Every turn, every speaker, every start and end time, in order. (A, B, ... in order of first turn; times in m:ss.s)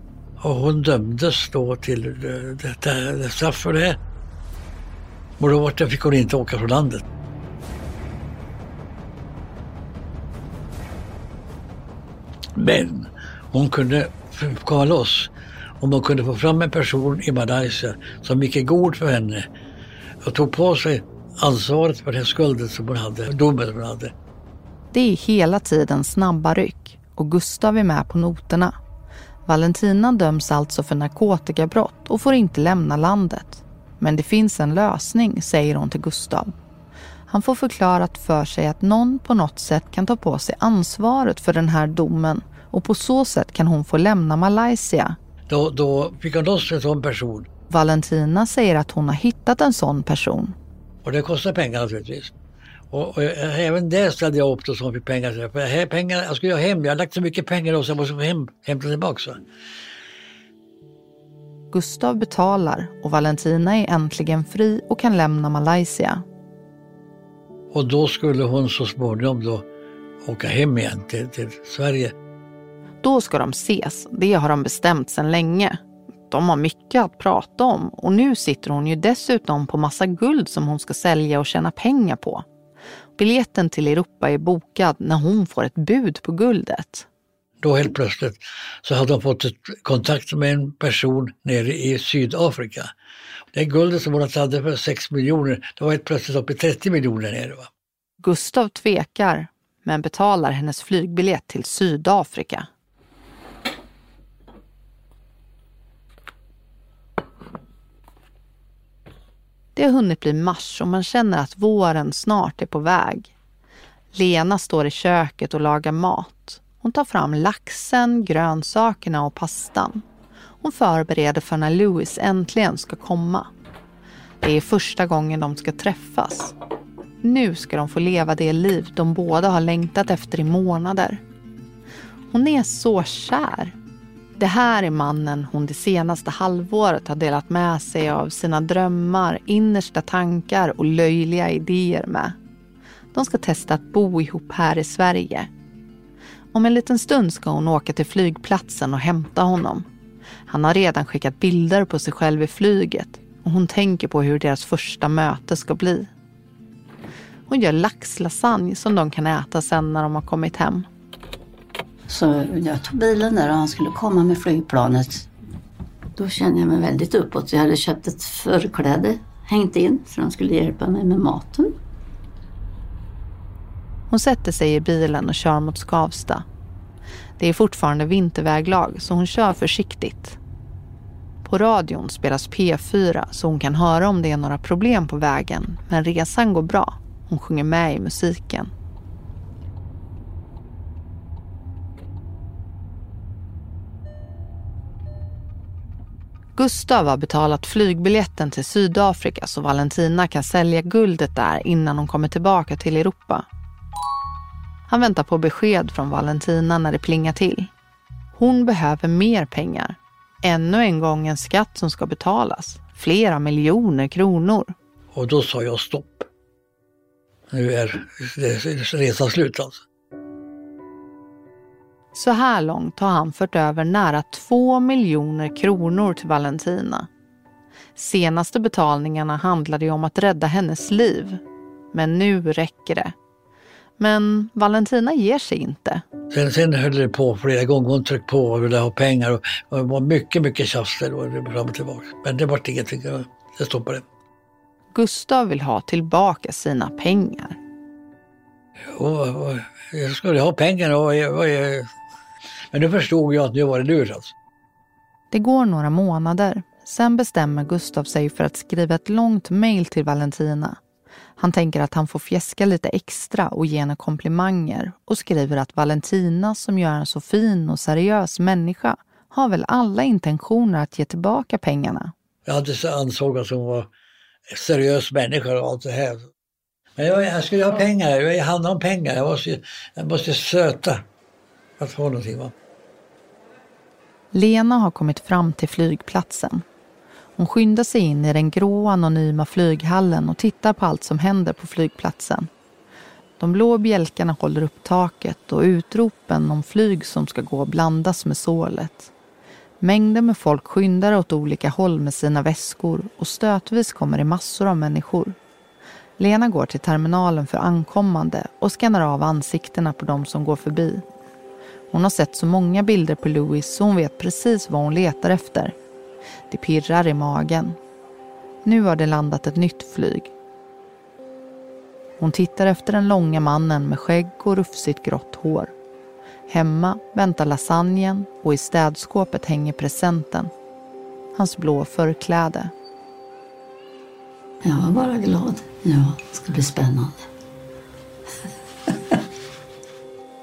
0:00.4-0:04.0 A
0:05.4-0:07.0 A
0:12.5-0:19.5 A
0:20.2-0:24.1 A
0:24.9-0:28.7 B
0:29.4-0:36.5 B
0:37.3-0:45.2 B
0:45.5-0:47.5 A
0:47.7-0:50.5 B
0:51.0-0:52.3 A
0:52.9-0:59.4 A
1:01.7-1:06.2 B
1:07.7-1:09.6 A
1:10.2-1:12.1 A
1:13.0-1:22.4 B
1:23.2-1:27.0 B
1:27.6-1:32.9 A
1:33.5-1:37.7 A
1:38.2-1:42.7 B
1:49.8-1:53.3 B
1:54.1-2:00.0 B
2:00.6-2:03.5 B
2:04.4-2:06.5 B
2:07.2-2:11.2 B
2:12.3-2:13.7 B
2:14.4-2:22.4 B
2:23.1-2:25.5 B
2:26.5-2:29.8 B
2:30.5-2:36.1 B
2:37.5-2:40.9 B
2:42.1-2:45.3 C
2:46.2-2:51.8 C
2:54.1-2:56.4 B
2:57.4-3:00.4 B
3:01.4-3:08.7 B
3:16.6-3:23.4 B
3:24.9-3:27.7 B
3:28.3-3:34.7 B
3:35.1-3:36.3 A
3:37.5-3:39.8 A
3:42.1-3:47.1 B
3:48.0-3:51.4 B
3:51.9-3:53.1 B
3:54.0-3:56.0 B
3:56.3-4:04.0 A
4:04.9-4:07.6 B
4:08.9-4:11.9 A
4:12.7-4:14.3 A
4:15.3-4:20.8 B
4:21.4-4:32.1 B
4:32.4-4:33.9 A
4:34.5-4:36.3 A
4:37.0-4:41.0 A
4:41.8-4:42.5 A
4:44.3-4:46.6 B
4:47.4-4:52.5 B
4:53.4-4:59.1 B
4:59.8-5:05.4 B
5:06.2-5:11.0 B
5:11.9-5:15.7 B
5:16.5-5:17.8 B
5:18.6-5:20.3 B
5:22.2-5:25.7 B
5:26.5-5:30.5 B
5:31.3-5:32.7 B
5:34.6-5:37.3 C
5:38.9-5:39.2 C